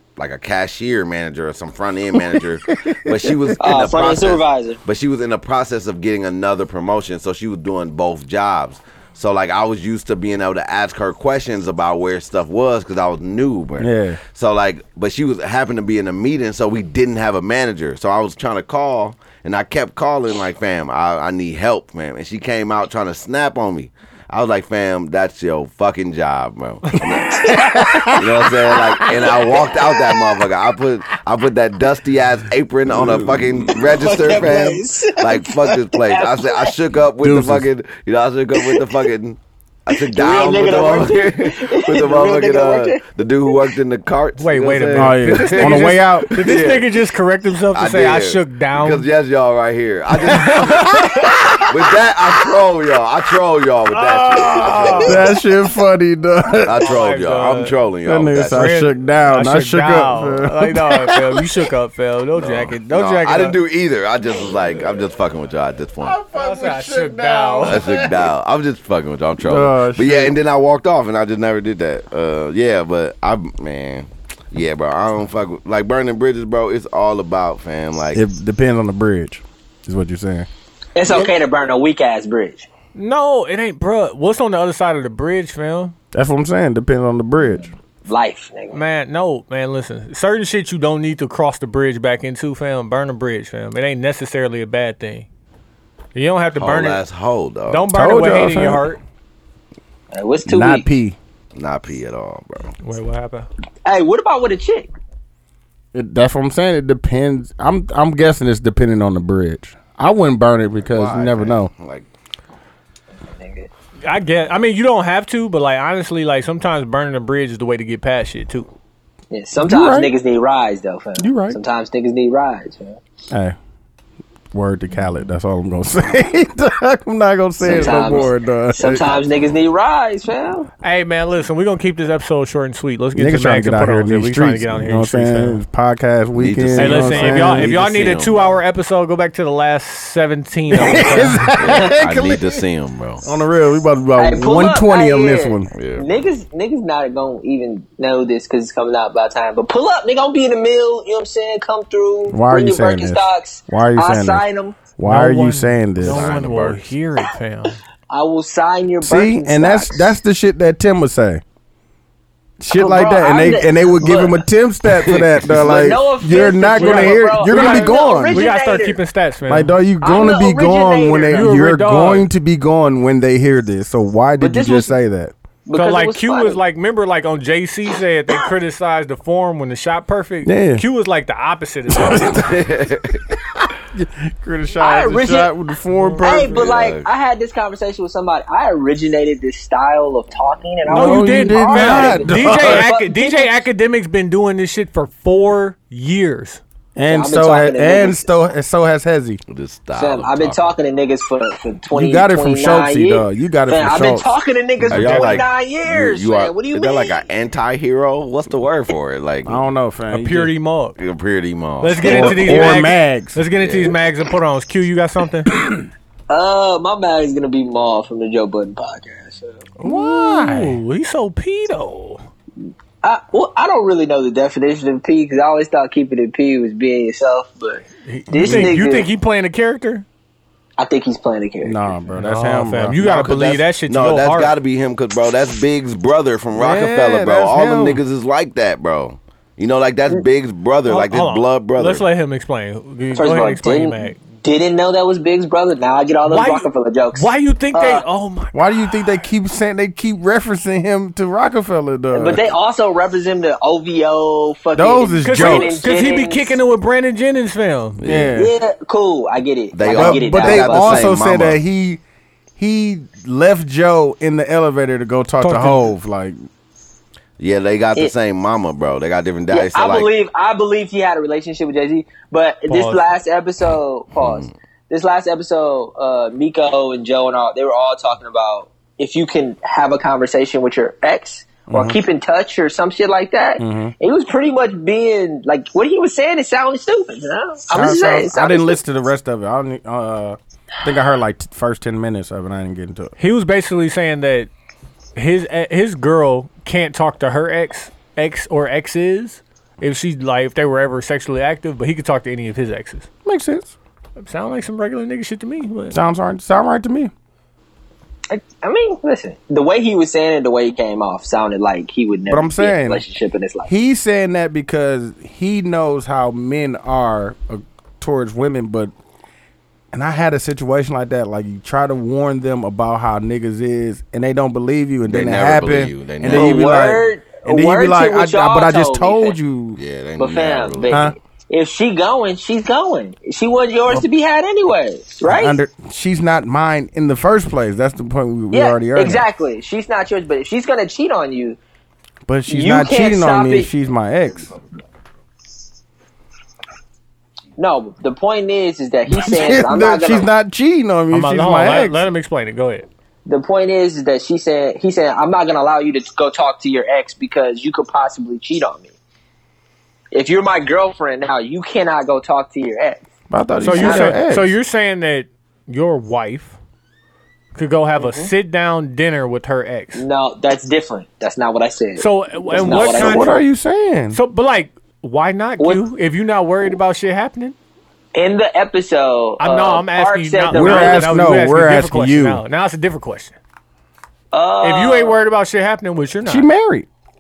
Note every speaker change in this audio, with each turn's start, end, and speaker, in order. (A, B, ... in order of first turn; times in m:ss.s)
0:00.2-0:46.9 A
0:02.1-0:03.6 B
0:03.6-0:04.8 C
0:13.8-0:14.2 B
0:27.1-0:28.3 B
0:27.3-0:28.2 C
0:28.7-0:29.9 C
0:32.9-0:33.5 B
0:33.9-0:36.7 C
0:37.2-0:37.7 B
0:38.6-0:38.9 C
0:39.9-0:43.0 C
0:44.4-0:49.1 D
0:44.9-0:46.7 B
0:47.7-0:55.2 A
0:50.3-0:51.6 D
0:53.9-0:55.3 D
0:55.0-0:56.9 B
0:56.6-0:58.7 A
0:56.8-0:57.8 D
0:58.0-1:01.5 B
0:58.5-1:03.6 D
1:02.4-1:06.2 A
1:06.0-1:08.3 B
1:06.3-1:08.0 D
1:07.6-1:18.2 A
1:09.4-1:10.4 B
1:18.1-1:20.5 B
1:21.0-1:22.7 C
1:23.0-1:25.9 D
1:26.1-1:27.7 B
1:28.1-1:28.8 C
1:28.7-1:35.3 D
1:36.2-1:37.0 D
1:36.6-1:37.9 A
1:37.7-1:39.0 D
1:37.9-1:38.9 B
1:40.1-1:40.9 C
1:40.5-1:41.2 B
1:41.6-1:42.7 A
1:42.8-1:43.5 D
1:43.8-1:44.9 C
1:45.9-1:51.7 B
1:50.8-1:52.1 A
1:53.2-1:53.7 C
1:54.0-1:58.7 D
1:59.3-2:03.0 C
1:59.6-2:00.1 B
2:01.2-2:01.6 B
2:03.3-2:03.6 B
2:04.5-2:09.2 B
2:07.6-2:10.7 C
2:07.7-2:08.0 A
2:10.8-2:15.6 D
2:13.2-2:17.7 B
2:16.4-2:18.6 A
2:16.8-2:21.6 D
2:20.7-2:22.6 B
2:21.5-2:23.2 A
2:23.2-2:25.7 B
2:24.2-2:34.8 C
2:25.7-2:26.1 A
2:32.3-2:34.4 B
2:35.0-2:36.3 B
2:35.0-2:37.8 D
2:36.0-2:36.9 A
2:38.1-2:40.2 C
2:39.0-2:41.4 B
2:42.6-2:48.5 B
2:42.7-2:44.4 C
2:44.9-2:45.9 A
2:45.6-2:49.0 C
2:46.8-2:49.8 D
2:49.5-2:55.3 B
2:50.0-2:51.6 C
2:51.3-2:52.3 D
2:54.4-2:54.9 C
2:55.6-2:56.6 C
2:55.7-3:02.5 D
3:00.4-3:00.8 B
3:01.9-3:02.6 B
3:02.3-3:03.2 A
3:03.9-3:06.6 B
3:04.8-3:05.5 C
3:05.9-3:06.4 D
3:06.2-3:13.5 C
3:06.3-3:07.1 A
3:10.8-3:12.8 B
3:10.9-3:16.6 D
3:17.0-3:19.4 B
3:17.1-3:18.2 C
3:19.5-3:20.7 A
3:20.0-3:27.2 C
3:21.9-3:24.4 B
3:24.9-3:25.5 D
3:24.9-3:29.6 A
3:29.4-3:30.5 B
3:30.1-3:31.0 D
3:31.0-3:32.8 A
3:31.8-3:35.5 D
3:32.0-3:33.4 B
3:33.6-3:34.0 A
3:36.3-3:39.6 C
3:39.8-3:42.2 D
3:39.8-3:40.8 B
3:43.0-3:49.1 C
3:48.0-3:50.0 D
3:48.4-3:48.8 B
3:50.8-3:51.8 C
3:51.6-3:53.1 B
3:52.2-3:54.5 D
3:53.0-4:02.1 A
3:56.5-3:58.0 B
4:00.9-4:04.2 D
4:03.1-4:08.0 C
4:06.2-4:09.0 D
4:08.5-4:12.4 B
4:12.1-4:16.6 C
4:14.8-4:15.8 B
4:15.2-4:18.0 D
4:18.0-4:18.4 A
4:18.0-4:18.5 B
4:18.4-4:21.1 C
4:19.7-4:21.6 A
4:19.9-4:22.0 B
4:22.6-4:26.4 B
4:25.4-4:25.8 D
4:27.4-4:30.1 A
4:29.5-4:48.8 C
4:32.7-4:33.0 D
4:34.1-4:34.5 A
4:41.7-4:42.0 B
4:43.6-4:43.9 B
4:47.7-4:53.1 B
4:53.2-4:54.5 D
4:55.2-5:03.1 D
5:03.2-5:03.8 B
5:04.2-5:06.0 D
5:05.9-5:07.1 B
5:08.3-5:13.7 C
5:12.3-5:13.0 B
5:13.7-5:18.9 B
5:19.9-5:29.8 B
5:25.1-5:27.0 A
5:26.3-5:29.4 C
5:29.8-5:31.1 A
5:30.2-5:35.6 C
5:30.9-5:31.2 B
5:35.3-5:39.3 B
5:38.5-5:41.6 C
5:42.3-5:44.5 B
5:42.5-5:43.7 C
5:47.6-5:50.3 C
5:49.1-5:52.1 B
5:51.1-5:52.9 D
5:53.3-5:59.0 C
6:00.1-6:03.0 C
6:03.3-6:04.5 B
6:03.6-6:06.6 D
6:03.7-6:04.2 C
6:07.6-6:10.0 D
6:08.0-6:08.3 C
6:10.0-6:13.4 C
6:12.0-6:13.4 D
6:12.6-6:14.2 B
6:14.1-6:17.6 D
6:18.2-6:21.1 C
6:19.4-6:23.4 D
6:20.5-6:22.4 B
6:24.3-6:25.2 C
6:24.6-6:26.5 D
6:26.2-6:26.9 B